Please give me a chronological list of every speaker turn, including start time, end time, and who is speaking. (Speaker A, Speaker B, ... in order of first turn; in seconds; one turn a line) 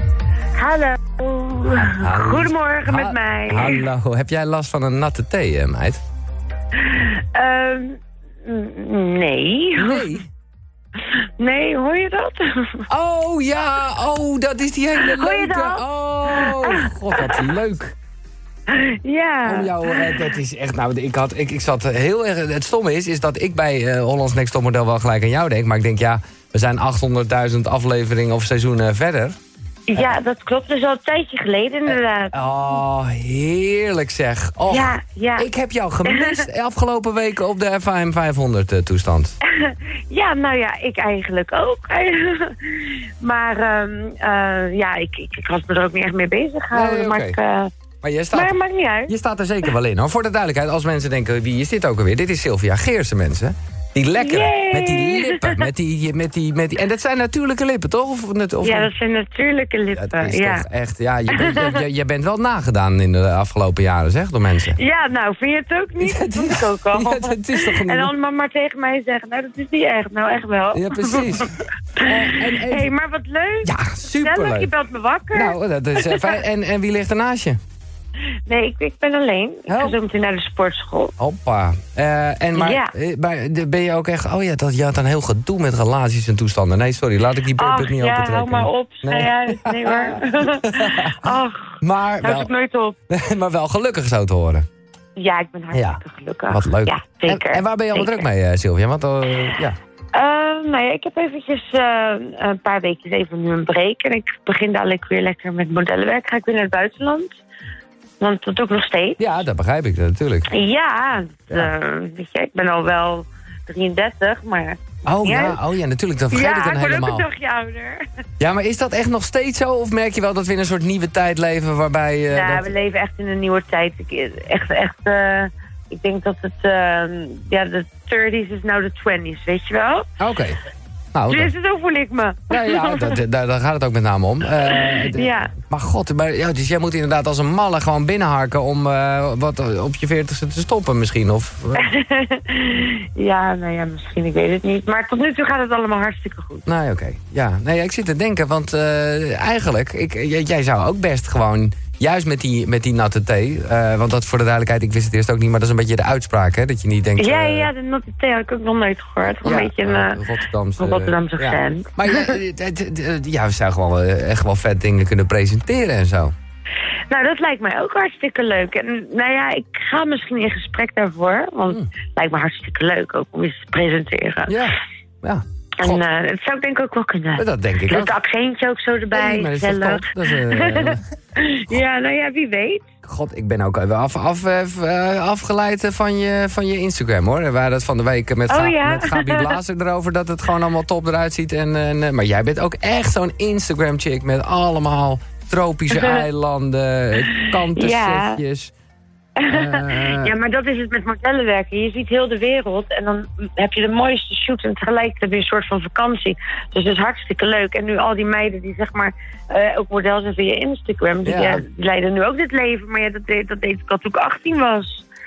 Speaker A: 0.6-3.9
Speaker B: 1.7-6.0
Speaker A: 6.8-10.1
Speaker B: 9.8-10.3
Speaker A: 11.4-12.8
Speaker B: 12.9-18.0
Speaker A: 15.0-17.5
Speaker A: 18.7-20.3
Speaker B: 19.4-29.4
Speaker A: 29.9-32.3
Speaker B: 31.9-39.4
Speaker A: 34.7-35.5
Speaker A: 36.1-36.5
Speaker A: 39.5-47.7
Speaker B: 46.7-47.4
Speaker B: 48.0-48.5
Speaker A: 48.3-49.1
Speaker B: 49.1-58.9
Speaker A: 54.2-55.7
Speaker A: 58.6-60.7
Speaker B: 59.9-64.8
Speaker A: 61.3-61.9
Speaker A: 64.8-76.4
Speaker B: 66.0-68.1
Speaker B: 70.7-71.5
Speaker B: 72.0-72.9
Speaker B: 73.6-74.7
Speaker B: 75.3-77.6
Speaker A: 78.5-81.1
Speaker B: 79.7-80.0
Speaker B: 81.2-91.2
Speaker A: 82.5-82.9
Speaker A: 87.6-93.0
Speaker B: 91.8-92.5
Speaker B: 93.1-94.7
Speaker A: 95.2-98.2
Speaker B: 95.7-99.8
Speaker A: 100.1-107.4
Speaker A: 108.2-109.4
Speaker B: 109.2-110.5
Speaker A: 110.5-115.6
Speaker B: 115.0-117.3
Speaker A: 116.3-118.0
Speaker B: 118.4-122.7
Speaker A: 122.3-130.1
Speaker B: 130.2-130.6
Speaker B: 131.1-131.5
Speaker A: 131.3-133.2
Speaker B: 132.5-141.9
Speaker A: 134.6-135.6
Speaker A: 141.8-146.7
Speaker B: 146.7-157.7
Speaker A: 157.2-160.2
Speaker B: 159.4-166.3
Speaker A: 160.8-162.4
Speaker A: 167.1-174.6
Speaker B: 174.5-176.0
Speaker A: 175.8-182.9
Speaker B: 177.4-178.2
Speaker B: 179.1-181.0
Speaker B: 183.0-198.7
Speaker A: 188.5-189.6
Speaker A: 195.9-196.2
Speaker A: 197.2-198.4
Speaker A: 199.4-215.1
Speaker B: 199.5-200.3
Speaker B: 211.2-211.6